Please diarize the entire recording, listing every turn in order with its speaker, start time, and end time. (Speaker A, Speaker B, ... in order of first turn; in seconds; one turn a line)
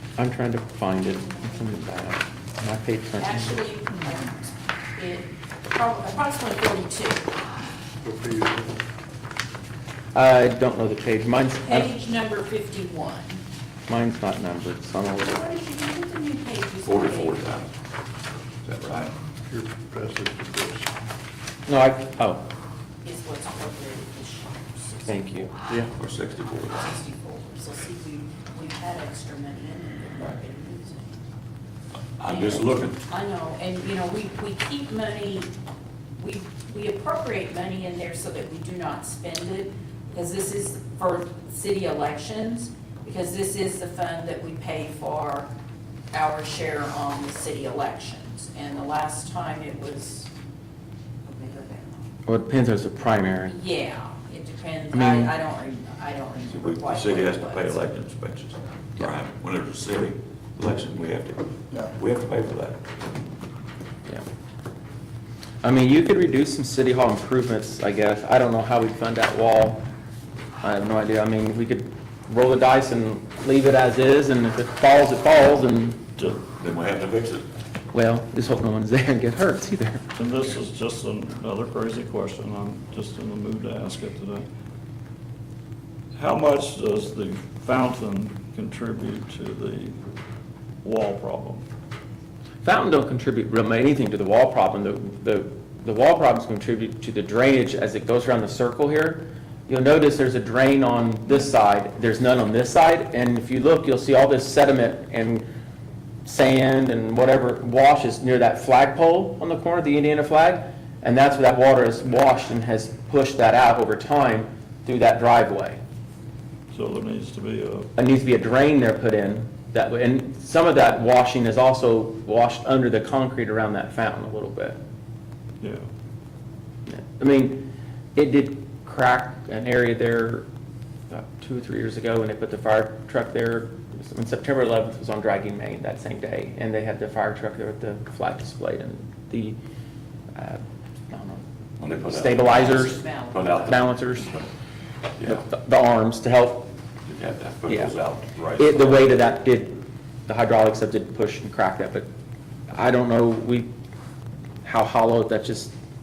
Speaker A: 0.2-3.6
Speaker B: 3.2-7.3
Speaker C: 8.0-8.7
Speaker A: 10.1-11.9
Speaker B: 11.6-13.4
Speaker A: 13.9-15.4
Speaker B: 15.2-17.6
Speaker D: 16.9-17.7
Speaker D: 18.6-19.1
Speaker C: 19.5-20.9
Speaker A: 21.7-22.5
Speaker B: 23.0-25.6
Speaker A: 25.1-25.5
Speaker D: 25.8-26.9
Speaker B: 26.7-31.2
Speaker D: 32.2-33.0
Speaker B: 32.3-35.5
Speaker B: 36.2-45.5
Speaker B: 46.1-50.3
Speaker B: 51.2-52.1
Speaker A: 52.2-53.5
Speaker B: 53.5-57.8
Speaker A: 54.9-55.3
Speaker D: 56.5-62.8
Speaker A: 65.6-69.8
Speaker A: 70.6-76.0
Speaker D: 76.5-77.5
Speaker A: 77.9-80.0
Speaker E: 80.2-84.5
Speaker E: 86.1-90.0
Speaker E: 90.8-91.7
Speaker A: 92.6-105.5
Speaker A: 106.2-115.8
Speaker E: 116.7-117.9
Speaker A: 118.0-124.8
Speaker E: 125.6-125.9
Speaker A: 126.9-130.5
Speaker A: 131.1-139.6
Speaker A: 140.3-143.0
Speaker D: 141.8-144.4
Speaker B: 142.4-143.8
Speaker A: 143.5-144.3
Speaker A: 145.2-146.7
Speaker D: 147.1-149.0
Speaker A: 148.6-152.1
Speaker A: 152.7-153.7
Speaker A: 154.6-155.7